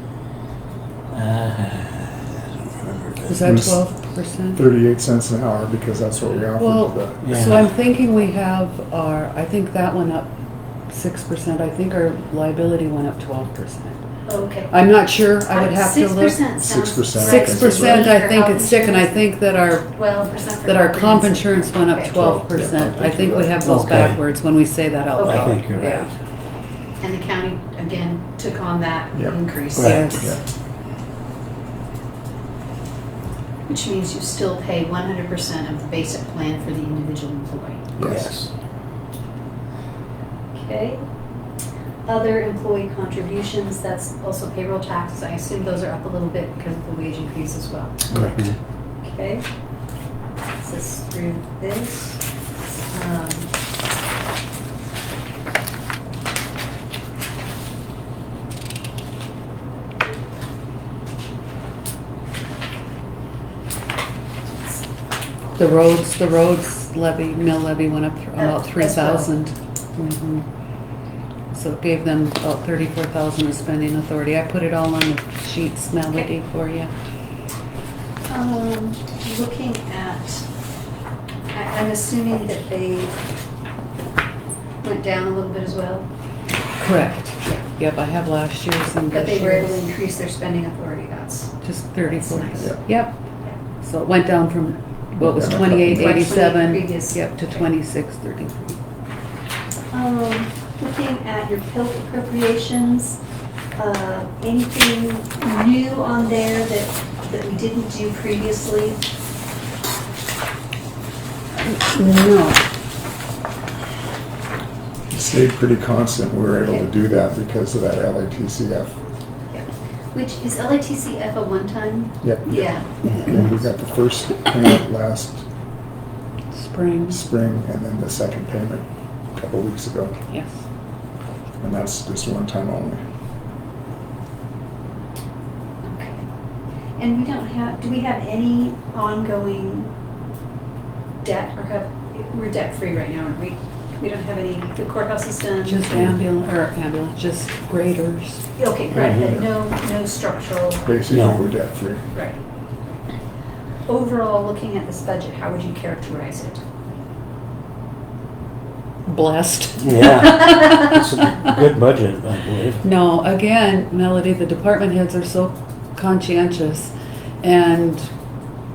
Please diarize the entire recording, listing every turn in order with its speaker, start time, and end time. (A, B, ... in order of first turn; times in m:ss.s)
0:01.1-0:03.5 A
0:03.3-0:04.6 B
0:03.4-0:03.8 C
0:04.6-0:07.5 C
0:06.6-0:10.3 B
0:07.2-0:07.6 A
0:10.9-0:14.0 B
0:14.3-0:14.8 D
0:14.7-0:16.5 B
0:15.4-0:19.3 D
0:16.6-0:18.1 C
0:17.1-0:26.1 B
0:19.9-0:22.2 D
0:22.1-0:23.6 C
0:23.6-0:24.2 A
0:25.2-0:26.0 D
0:25.2-0:26.0 A
0:27.0-0:30.2 D
0:29.8-0:30.0 A
0:29.8-0:30.3 B
0:29.9-0:30.4 C
0:33.7-0:37.8 D
0:38.0-0:38.3 C
0:38.0-0:38.5 A
0:40.5-0:41.0 D
0:42.1-0:48.4 D
0:48.1-0:48.6 A
0:49.0-0:49.5 D
0:50.6-0:52.2 D
0:52.9-0:53.5 D
1:04.5-1:04.8 D
1:05.6-1:10.5 B
1:08.4-1:09.3 D
1:11.5-1:16.9 B
1:18.3-1:20.5 D
1:21.5-1:23.2 D
1:24.8-1:26.1 D
1:26.8-1:29.9 B
1:29.1-1:32.8 D
1:31.6-1:33.2 B
1:33.8-1:38.8 B
1:35.2-1:36.2 C
1:35.9-1:37.7 D
1:39.9-1:43.2 D
1:43.8-1:49.0 D
1:51.6-1:52.6 B
1:55.1-1:59.0 C
1:59.5-2:03.7 D
2:02.2-2:05.4 C
2:06.5-2:07.2 B
2:07.1-2:10.2 C
2:11.6-2:13.0 C
2:15.8-2:16.3 D
2:17.0-2:19.9 D
2:21.2-2:26.0 D
2:25.6-2:28.4 B
2:28.6-2:31.0 D
2:29.1-2:29.4 C
2:30.8-2:32.0 C
2:31.1-2:31.4 A
2:32.1-2:32.4 D
2:33.9-2:36.6 D
2:39.1-2:41.6 B
2:39.8-2:42.9 A
2:42.8-2:48.1 B